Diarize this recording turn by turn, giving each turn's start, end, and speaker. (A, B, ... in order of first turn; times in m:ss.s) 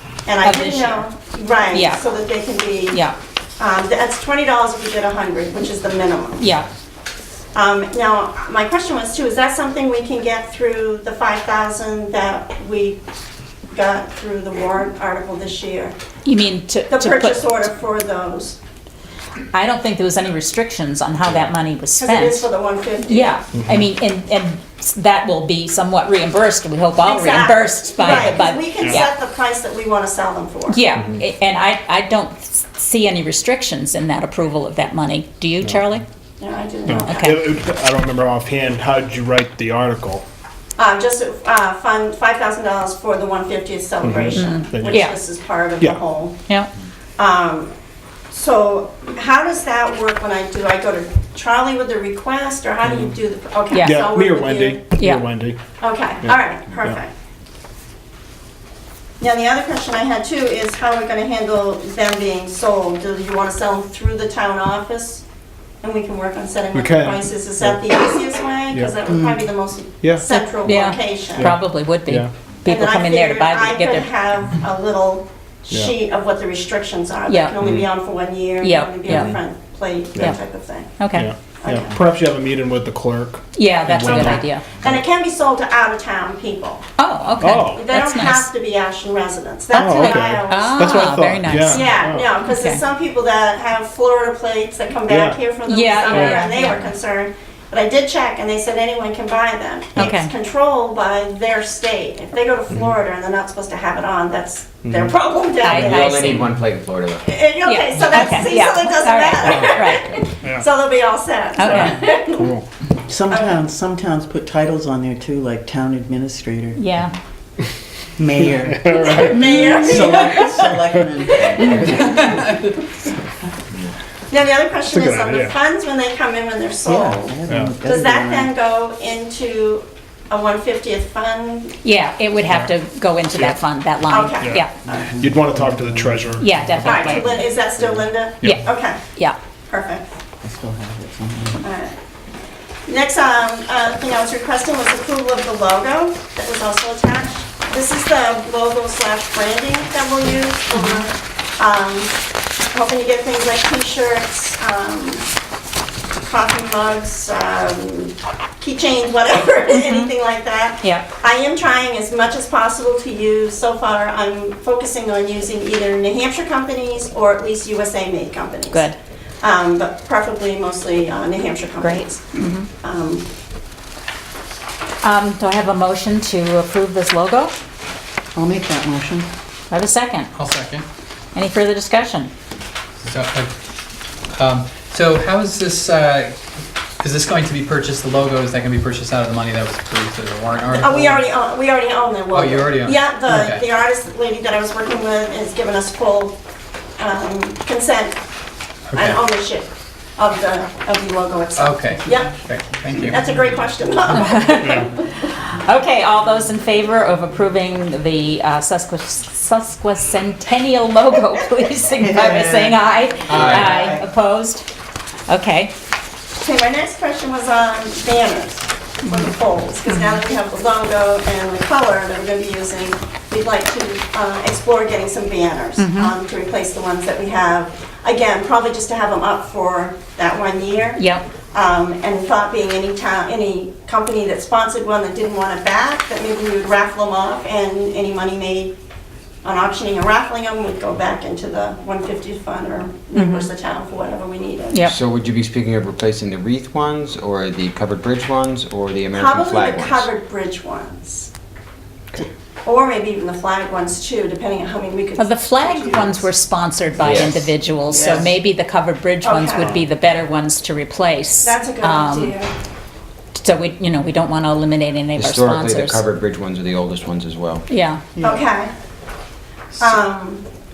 0:00.2-0:03.0 A
0:00.4-0:01.1 B
0:01.7-0:02.0 B
0:02.9-0:03.2 B
0:03.6-0:06.4 A
0:06.4-0:06.7 B
0:07.5-0:13.0 A
0:13.7-0:16.0 A
0:16.2-0:17.6 B
0:16.9-0:18.6 A
0:19.5-0:22.5 B
0:22.0-0:23.4 A
0:23.0-0:29.1 B
0:27.0-0:30.8 A
0:30.7-0:36.0 B
0:36.4-0:37.3 A
0:36.9-0:40.2 C
0:37.0-0:37.4 B
0:40.8-0:46.4 A
0:44.0-0:45.1 C
0:44.4-0:45.2 B
0:47.2-0:47.7 A
0:48.3-0:54.8 A
0:53.7-0:54.0 B
0:53.8-0:55.6 C
0:55.0-0:55.2 B
0:55.8-0:57.1 A
0:56.2-0:57.0 C
0:59.2-1:05.2 A
1:05.8-1:11.5 A
1:06.7-1:07.9 C
1:08.7-1:09.0 C
1:10.0-1:10.4 C
1:10.6-1:14.1 B
1:11.3-1:12.3 C
1:12.6-1:21.0 A
1:15.7-1:15.9 C
1:17.3-1:17.6 B
1:18.6-1:19.3 B
1:21.0-1:21.3 B
1:21.1-1:25.0 C
1:21.6-1:22.0 A
1:23.5-1:24.6 B
1:24.2-1:26.8 A
1:27.0-1:28.5 B
1:27.4-1:27.9 C
1:27.7-1:46.4 A
1:29.7-1:31.9 B
1:29.7-1:32.3 C
1:32.4-1:32.8 B
1:35.0-1:35.5 C
1:35.7-1:36.9 B
1:36.1-1:36.5 C
1:40.0-1:40.3 B
1:44.8-1:45.1 C
1:45.6-1:46.4 B
1:46.0-1:47.2 D
1:47.2-1:52.5 A
1:47.6-1:50.2 B
1:50.4-1:50.7 C
1:51.6-1:52.1 B
1:51.6-1:52.6 C
1:53.1-1:56.8 E
1:56.8-1:57.1 B
1:58.2-2:02.4 E
1:58.4-1:59.5 C
1:58.9-2:00.8 A
2:01.3-2:01.6 A
2:01.8-2:02.6 F
2:04.3-2:11.8 A
2:04.9-2:05.6 C
2:06.8-2:08.5 E
2:07.5-2:07.8 C
2:11.8-2:14.7 B
2:12.5-2:12.7 C
2:13.3-2:13.6 C
2:14.1-2:15.2 A
2:14.4-2:17.4 C
2:14.9-2:16.8 E
2:16.4-2:17.3 B
2:16.8-2:19.0 A
2:17.8-2:18.1 E
2:18.4-2:18.7 C
2:18.4-2:19.4 B
2:19.7-2:20.1 A
2:20.4-2:21.6 E
2:21.6-2:21.9 A
2:22.9-2:32.1 A
2:30.7-2:31.0 B
2:32.7-2:35.2 A
2:36.3-2:48.9 A
2:39.7-2:40.1 B
2:48.7-2:49.0 B
2:49.4-2:52.2 A
2:51.8-2:52.7 B
2:52.8-2:53.3 A
2:55.0-2:57.6 B
2:58.3-2:59.3 E
2:59.7-3:00.3 B
3:00.3-3:00.8 F
3:01.3-3:02.3 B
3:03.0-3:03.5 F
3:04.3-3:06.4 F
3:07.0-3:11.2 F
3:10.7-3:16.4 A
3:12.3-3:13.6 F
3:17.0-3:18.2 A
3:18.9-3:19.2 F
3:18.9-3:22.4 A
3:21.6-3:23.3 F
3:22.9-3:24.9 A
3:24.1-3:34.6 B
3:32.0-3:32.8 E
3:33.3-3:33.9 F
3:33.5-3:34.0 E
3:35.3-3:35.7 B
3:36.4-3:58.7 A
3:39.9-3:40.2 B
3:45.8-3:46.1 B
3:51.0-3:51.2 B
3:59.4-4:04.9 A
4:03.1-4:03.5 B
4:04.9-4:10.0 D
4:09.1-4:11.3 A
4:12.6-4:16.3 A
4:15.2-4:22.4 B
4:19.2-4:19.8 A
4:21.4-4:22.5 A
4:23.3-4:26.0 B
4:25.2-4:27.6 D
4:27.7-4:28.0 B
4:28.2-4:28.7 A
4:29.8-4:30.4 A